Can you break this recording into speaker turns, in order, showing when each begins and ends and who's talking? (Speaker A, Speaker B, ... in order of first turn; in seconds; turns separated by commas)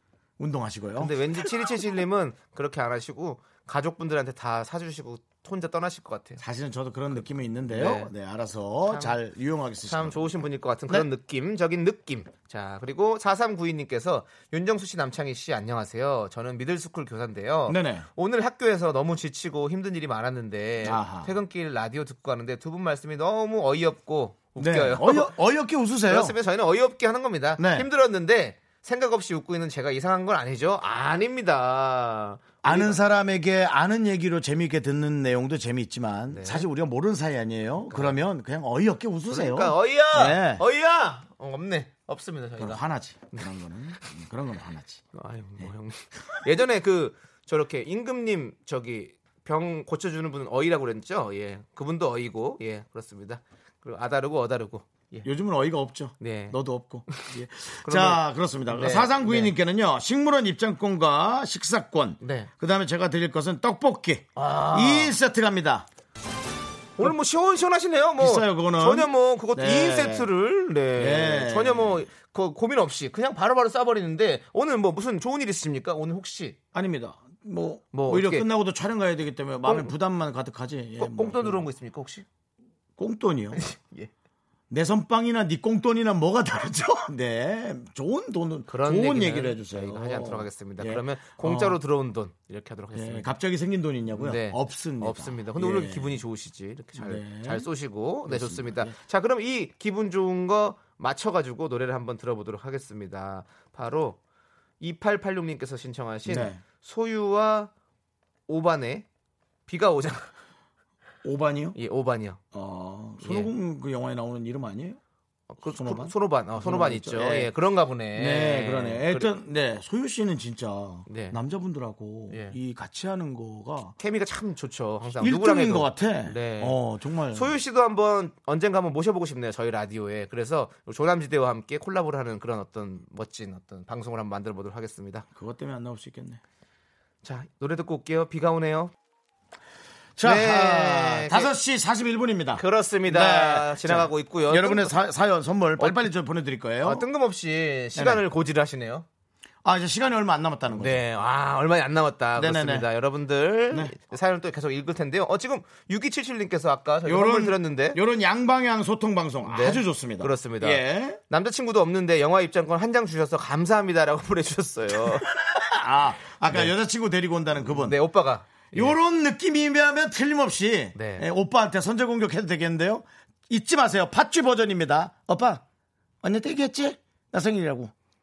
Speaker A: 0.4-1.5, Speaker B: 1.0-6.4, Speaker A: 6.4-10.3, Speaker B: 7.7-8.1, Speaker B: 8.9-9.2, Speaker B: 9.8-25.3, Speaker A: 17.7-18.1, Speaker A: 20.8-21.3, Speaker A: 24.6-26.4, Speaker B: 26.1-33.0, Speaker A: 27.6-27.9, Speaker A: 32.6-40.6, Speaker B: 36.3-36.6, Speaker B: 37.9-38.2, Speaker B: 39.3-42.8, Speaker A: 42.6-45.0, Speaker B: 45.1-55.3, Speaker A: 55.2-65.9, Speaker B: 56.2-59.5, Speaker B: 62.2-62.5, Speaker B: 64.4-65.2, Speaker B: 67.0-76.6, Speaker A: 68.2-70.3, Speaker A: 71.0-72.0, Speaker A: 76.7-81.6, Speaker B: 77.9-78.5, Speaker B: 79.6-79.9, Speaker B: 81.0-82.3, Speaker A: 83.0-83.6, Speaker B: 83.5-84.1, Speaker A: 84.7-91.8, Speaker B: 88.7-93.3, Speaker A: 92.9-96.2, Speaker B: 94.1-104.2, Speaker A: 97.0-97.7, Speaker A: 98.3-99.0, Speaker B: 104.8-107.7, Speaker A: 106.3-106.6, Speaker B: 108.5-109.0, Speaker B: 109.7-110.3, Speaker A: 111.2-111.8, Speaker B: 111.8-112.4, Speaker A: 112.5-115.0, Speaker B: 113.2-113.5, Speaker B: 115.5-119.3, Speaker A: 115.7-117.5, Speaker A: 118.1-124.0, Speaker B: 121.1-121.4, Speaker B: 122.3-122.5, Speaker B: 124.0-126.8, Speaker A: 125.2-127.5, Speaker B: 127.3-135.3, Speaker A: 135.3-136.4, Speaker B: 137.2-138.9, Speaker A: 140.2-147.0, Speaker B: 140.2-141.5, Speaker B: 142.6-144.9, Speaker B: 145.8-146.1, Speaker B: 146.8-149.1, Speaker A: 147.9-148.2, Speaker A: 149.6-151.0, Speaker B: 150.7-158.0, Speaker A: 152.4-152.9, Speaker A: 157.1-161.2, Speaker B: 159.5-165.3, Speaker A: 165.2-168.0, Speaker B: 167.6-168.9, Speaker A: 168.7-175.6, Speaker B: 170.9-171.3, Speaker A: 176.2-177.9